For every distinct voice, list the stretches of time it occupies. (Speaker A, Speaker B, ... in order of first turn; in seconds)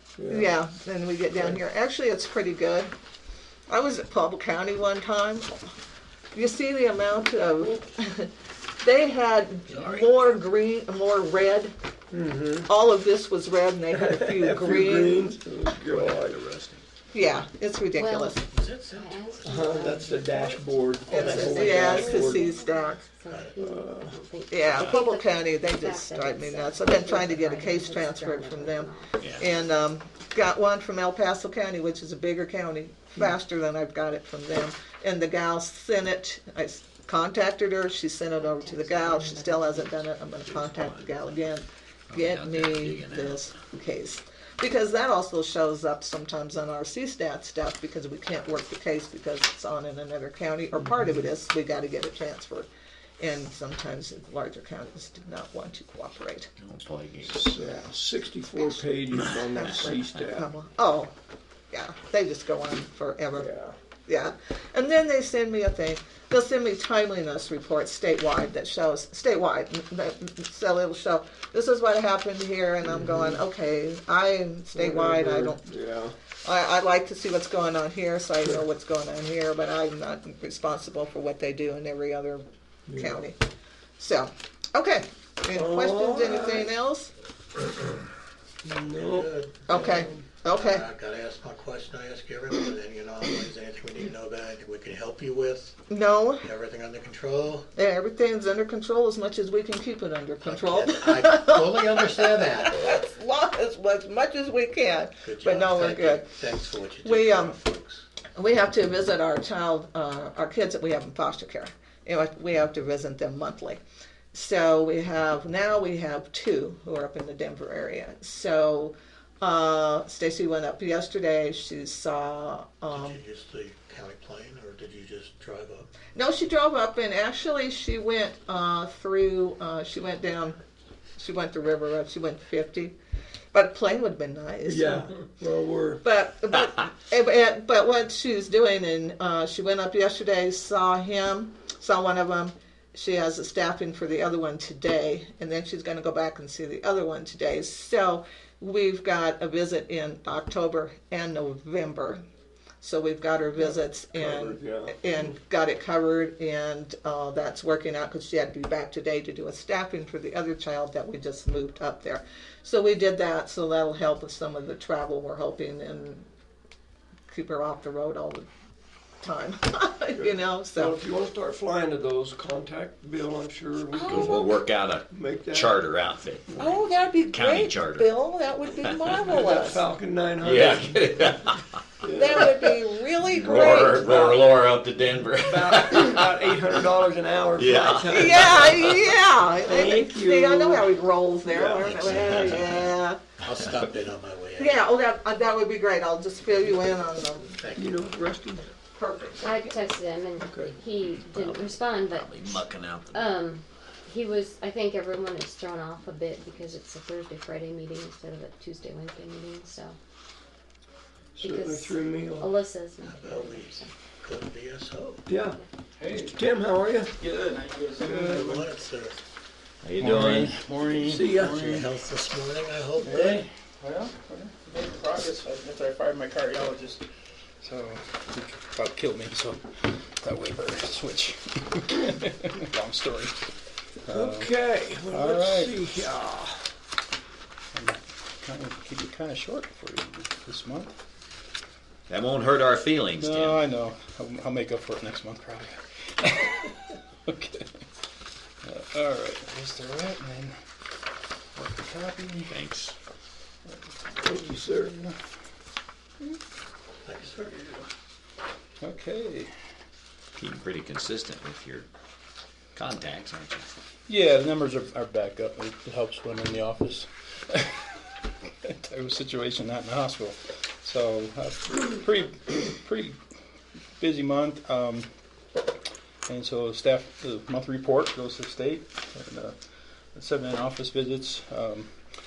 Speaker A: 0.2-0.5, 1.3-1.6, 12.1-12.7, 13.9-16.4, 19.4-22.5, 23.6-24.2, 50.8-51.1, 57.2-60.5, 63.3-63.7, 72.8-73.4, 74.7-76.1, 82.9-83.2, 85.5-86.7, 88.6-90.2, 134.7-136.0, 153.6-155.0, 170.2-174.5, 175.1-175.8, 179.2-181.3, 182.0-182.7, 184.0-184.5, 185.4-188.9, 189.6-190.9, 191.4-192.1, 197.7-198.7, 200.4-200.7, 211.3-212.5, 215.3-215.6, 216.2-217.1, 218.0-218.7, 220.0-221.9, 234.1-236.7, 254.2-254.9
Speaker B: 0.3-2.9, 3.7-5.5, 6.3-11.7, 12.6-15.4, 17.1-18.4, 21.1-23.0, 24.5-52.7, 53.2-56.5, 58.5-58.8, 59.5-61.1, 61.7-63.5, 64.0-75.6, 76.4-83.4, 84.0-87.1, 89.7-90.9, 95.9-96.5, 97.7-106.3, 107.0-107.6, 108.3-113.8, 114.3-123.2, 126.1-130.6, 131.2-132.9, 133.5-135.1, 136.0-152.2, 152.8-166.3, 167.3-168.5, 169.2-171.0, 174.0-174.5, 176.6-179.8, 182.1-184.3, 188.1-193.2, 194.6-197.6, 198.9-199.8
Speaker C: 9.7-10.4, 15.8-16.9, 29.2-29.4, 40.4-41.3, 42.1-43.5, 56.6-57.5, 174.1-178.1, 178.8-179.4, 180.4-181.8, 183.2-186.6, 187.6-189.1, 201.1-203.4, 219.8-220.5, 242.1-243.6, 252.4-252.9, 260.3-261.9, 262.7-263.7
Speaker D: 17.9-29.3, 38.4-40.0, 199.4-202.4, 203.1-209.9, 211.4-213.8
Speaker E: 18.5-20.4, 21.1-21.9, 23.3-23.5, 88.9-95.8, 96.4-97.7, 100.4-103.0, 105.2-108.0, 122.9-125.9, 191.8-192.9, 193.4-194.8, 197.6-198.1, 213.0-215.2, 218.2-219.2, 221.7-223.4, 257.0-257.6
Speaker F: 216.0-216.4, 217.2-218.7, 219.9-221.9, 223.0-227.0, 227.6-233.3, 234.1-234.5, 235.1-235.7, 237.7-240.9, 243.1-246.7, 247.3-247.6, 248.6-250.5, 251.5-252.6, 253.7-255.1, 258.8-259.5, 264.1-267.8, 268.7-273.1, 274.0-275.1, 276.3-279.6, 280.1-282.0